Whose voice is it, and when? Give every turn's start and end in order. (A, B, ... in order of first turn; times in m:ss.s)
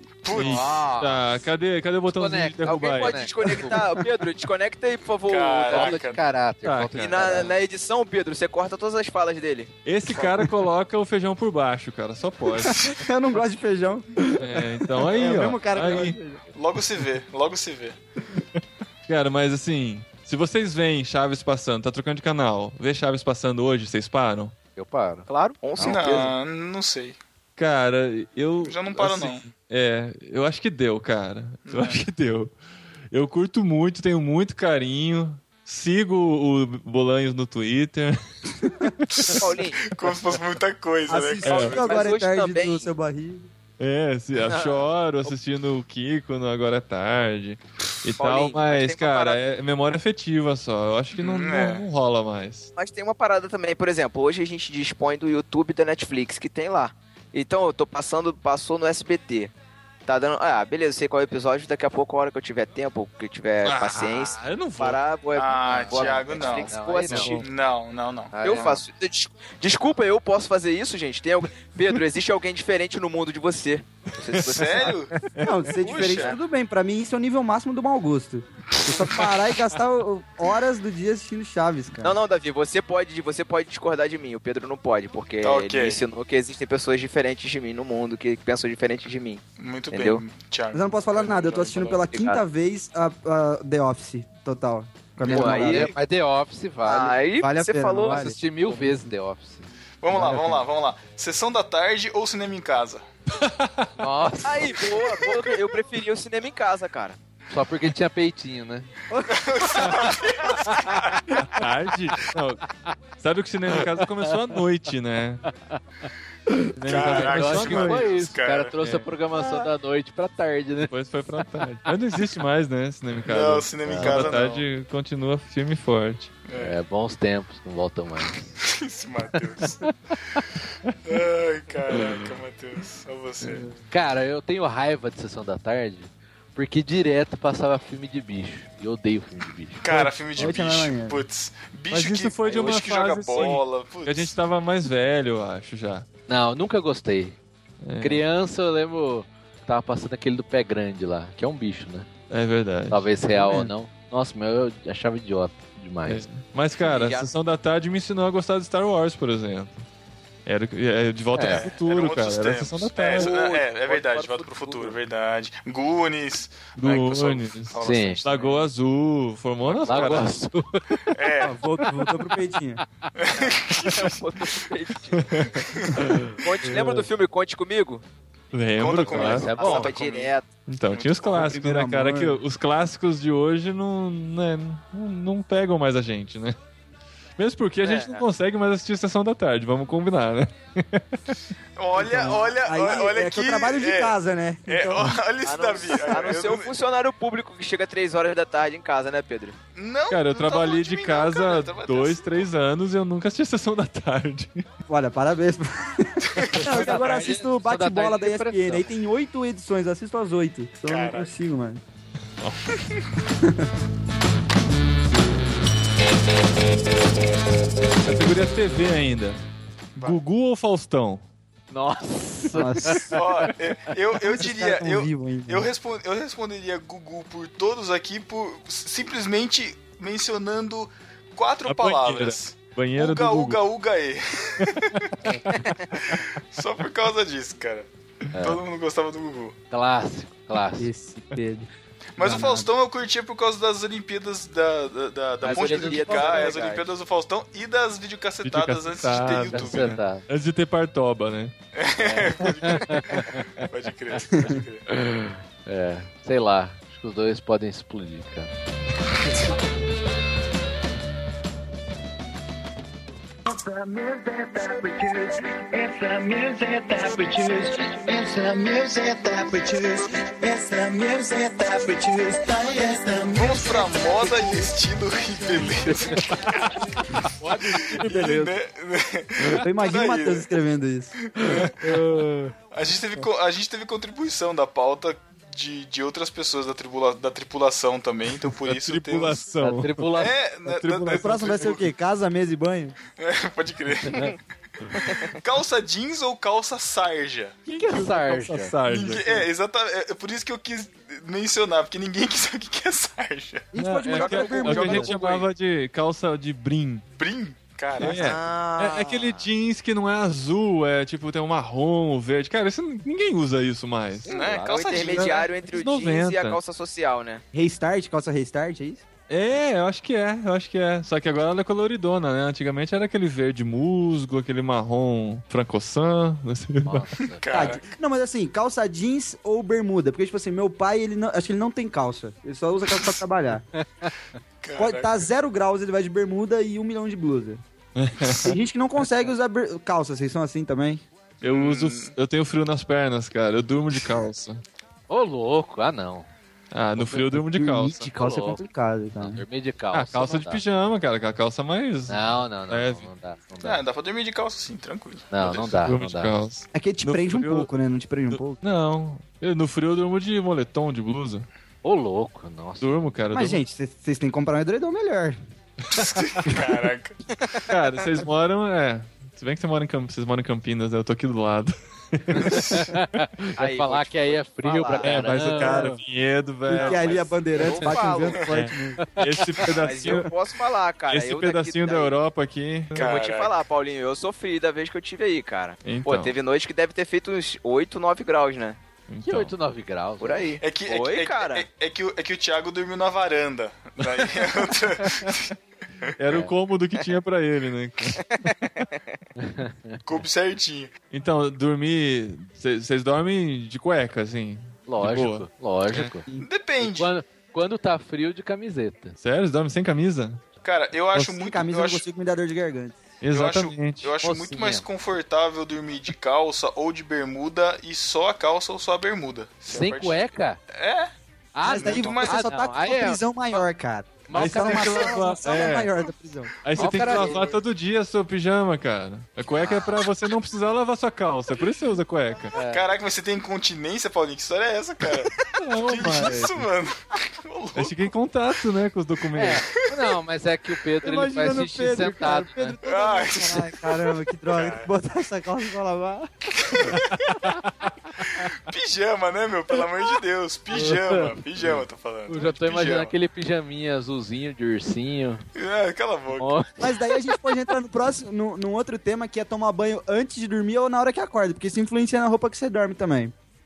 0:00.2-0:00.8 A
0:00.3-0:01.4 B
0:00.3-0:03.2 C
0:02.1-0:03.8 B
0:02.6-0:06.0 D
0:05.2-0:06.2 A
0:05.7-0:07.5 B
0:06.6-0:07.5 C
0:07.0-0:10.5 D
0:09.8-0:12.9 C
0:12.8-0:16.4 E
0:14.4-0:16.2 C
0:16.5-0:18.0 A
0:19.1-0:24.5 C
0:24.8-0:25.3 B
0:25.3-0:26.3 D
0:25.8-0:27.2 A
0:27.6-0:32.5 C
0:28.6-0:29.4 A
0:31.7-0:32.0 A
0:33.1-0:39.4 C
0:39.2-0:41.9 A
0:39.4-0:39.8 D
0:41.1-0:43.5 E
0:41.4-0:41.7 C
0:41.5-0:42.9 D
0:43.8-0:52.7 C
0:44.4-0:45.3 D
0:48.2-0:49.4 D
0:51.2-0:51.8 A
0:52.8-0:59.5 D
1:00.0-1:07.4 D
1:03.6-1:05.0 C
1:05.3-1:06.8 A
1:05.7-1:07.4 B
1:07.1-1:07.4 C
1:07.3-1:08.6 A
1:08.3-1:08.8 B
1:08.4-1:14.9 D
1:14.3-1:15.7 C
1:14.4-1:15.1 A
1:15.4-1:22.2 E
1:15.8-1:16.3 A
1:22.0-1:30.2 D
1:25.4-1:26.0 A
1:29.6-1:32.0 A
1:30.7-1:35.9 E
1:32.1-1:32.4 D
1:35.2-1:36.0 D
1:35.2-1:37.2 B
1:36.8-1:38.3 D
1:37.4-1:39.1 E
1:38.0-1:39.7 B
1:40.0-1:43.0 A
1:40.1-1:40.6 C
1:43.3-1:43.9 C
1:44.0-1:45.3 B
1:44.4-1:47.2 D
1:47.5-1:48.9 B
1:49.1-1:49.5 E
1:49.3-1:51.4 A
1:50.7-1:51.0 B
1:51.4-1:52.7 C
1:53.2-1:55.4 C
1:53.9-1:54.3 B
1:56.8-1:58.2 C
1:56.8-1:58.7 A
1:56.9-2:01.6 B
1:58.8-1:59.1 C
2:00.9-2:06.3 C
2:03.3-2:04.6 A
2:03.8-2:04.4 B
2:06.5-2:06.8 A
2:06.5-2:08.5 B
2:08.6-2:09.9 A
2:09.6-2:09.9 B
2:11.0-2:13.7 A
2:11.9-2:12.3 C
2:13.9-2:19.8 B
2:19.8-2:24.3 A
2:20.4-2:21.2 E
2:21.9-2:26.0 C
2:26.3-2:27.4 B
2:27.8-2:28.2 C
2:28.0-2:32.1 B
2:32.3-2:33.6 C
2:32.9-2:36.2 B
2:36.0-2:39.8 C
2:36.8-2:37.3 D
2:40.4-2:43.3 C
2:41.3-2:41.7 B
2:41.4-2:48.5 A
2:43.1-2:45.0 D
2:46.8-2:50.4 C
2:47.8-2:48.2 B
2:48.2-2:48.6 D
2:49.8-2:50.2 A
2:49.8-2:51.1 B
2:51.1-2:51.5 A
2:51.4-2:52.8 E
2:51.8-2:52.1 B
2:53.2-2:54.2 A
2:53.4-2:55.3 D
2:55.1-2:57.0 C
2:55.7-2:56.0 A
2:56.4-2:58.0 D
2:58.5-2:59.6 C
2:58.8-3:00.3 A
2:59.1-3:00.5 D
2:59.1-2:59.9 B
3:00.7-3:06.6 C
3:00.9-3:01.5 A
3:01.3-3:02.4 E
3:07.4-3:11.2 C
3:07.8-3:08.2 D
3:11.8-3:16.7 A
3:12.0-3:15.2 E
3:15.4-3:19.6 D
3:19.8-3:22.5 A
3:20.1-3:24.6 C
3:24.9-3:31.8 E
3:26.3-3:27.0 A
3:26.6-3:28.9 B
3:30.8-3:31.3 A
3:32.4-3:32.7 C
3:33.4-3:33.7 E
3:38.0-3:39.4 C
3:40.0-3:41.2 C
3:41.7-3:43.4 B
3:42.5-3:43.2 E
3:43.1-3:55.1 A
3:44.3-3:45.7 E
3:51.6-3:53.6 C
3:54.6-3:56.2 C
3:56.0-3:57.9 A
3:58.3-3:58.6 B
3:58.4-3:59.6 A
3:59.7-4:00.9 B
4:00.8-4:02.7 E
4:02.2-4:09.9 A
4:05.4-4:06.6 B
4:05.4-4:06.9 D
4:08.4-4:11.5 C
4:09.5-4:10.2 B
4:11.7-4:14.8 A
4:12.0-4:13.5 B
4:14.9-4:18.5 B
4:23.4-4:33.8 F
4:33.4-4:36.7 A
4:34.2-4:34.5 E
4:37.2-4:38.5 C
4:37.7-4:40.5 A
4:39.6-4:41.1 E
4:41.2-4:41.7 A
4:41.4-4:42.5 C
4:42.7-4:49.4 A
4:48.6-4:50.1 C
4:49.6-4:50.3 B
4:50.1-4:51.9 A
4:50.8-4:53.0 E
4:50.8-4:51.3 C
4:53.2-4:54.3 A
4:55.3-4:57.6 A
4:57.7-4:59.4 C
4:57.7-4:58.7 B
4:58.9-5:03.7 A
5:03.7-5:05.2 E
5:03.8-5:07.0 C
5:04.2-5:05.4 D
5:07.2-5:08.3 A
5:08.0-5:14.3 C
5:08.0-5:09.5 D
5:14.3-5:15.5 A
5:14.3-5:17.4 D
5:14.4-5:15.0 B
5:15.1-5:16.6 C
5:17.5-5:19.0 E
5:19.3-5:27.1 C
5:26.8-5:27.4 B
5:27.4-5:27.8 A
5:27.5-5:33.6 E
5:33.8-5:34.1 B
5:34.6-5:35.3 A
5:34.8-5:37.6 E
5:38.0-5:38.5 C
5:38.4-5:41.0 E
5:41.4-5:44.6 C
5:41.4-5:42.1 A
5:45.1-5:46.3 B
5:46.7-5:48.1 C
5:47.0-5:47.3 B
5:47.3-5:49.4 E
5:48.1-5:48.6 B
5:49.2-5:50.6 B
5:49.9-5:53.0 C
5:52.1-5:53.8 B
5:53.6-5:55.8 A
5:55.3-5:56.3 B
5:55.8-5:57.7 C
5:56.7-5:58.6 E
5:58.3-6:01.5 C
6:01.8-6:03.1 B
6:02.8-6:03.6 C
6:03.3-6:05.4 E
6:05.9-6:07.2 A
6:07.4-6:07.7 D
6:07.7-6:13.5 C
6:12.3-6:16.0 B
6:13.6-6:15.4 D
6:15.0-6:17.3 C
6:15.5-6:16.0 E
6:16.6-6:19.0 E
6:16.9-6:18.5 D
6:18.4-6:20.3 C
6:19.0-6:19.6 B
6:19.6-6:22.2 D
6:20.0-6:20.3 E
6:21.1-6:23.1 C
6:22.9-6:23.5 A
6:22.9-6:28.8 D
6:25.8-6:26.3 C
6:29.1-6:29.5 C
6:29.2-6:30.5 B
6:30.2-6:31.6 D
6:30.6-6:35.5 A
6:36.2-6:38.2 C
6:36.3-6:36.5 B
6:38.2-6:39.2 D
6:39.4-6:40.0 B
6:40.0-6:40.9 A
6:41.1-6:46.1 C
6:44.9-6:46.2 B
6:46.4-6:47.1 A
6:46.8-6:49.2 B
6:49.2-6:50.4 C
6:50.6-6:52.0 A
6:51.1-6:53.0 E
6:53.2-6:54.1 C
6:53.3-7:00.2 A
6:54.2-6:54.8 B
6:59.7-7:00.6 B
7:00.7-7:01.1 A
7:01.5-7:03.6 B
7:01.6-7:07.3 E
7:01.6-7:02.5 A
7:04.3-7:05.4 B
7:04.3-7:05.9 C
7:06.6-7:12.6 C
7:06.8-7:07.5 B
7:07.1-7:07.4 A
7:12.5-7:12.8 B
7:12.7-7:18.1 A
7:15.5-7:16.6 C
7:17.7-7:19.6 C
7:19.4-7:22.8 B
7:21.0-7:26.3 E
7:22.8-7:23.8 A
7:24.5-7:24.9 A
7:26.6-7:27.0 A
7:26.9-7:27.6 C
7:28.3-7:33.1 A
7:30.8-7:31.3 B
7:32.3-7:35.4 B
7:35.5-7:36.5 A
7:36.4-7:37.2 B
7:36.8-7:43.3 E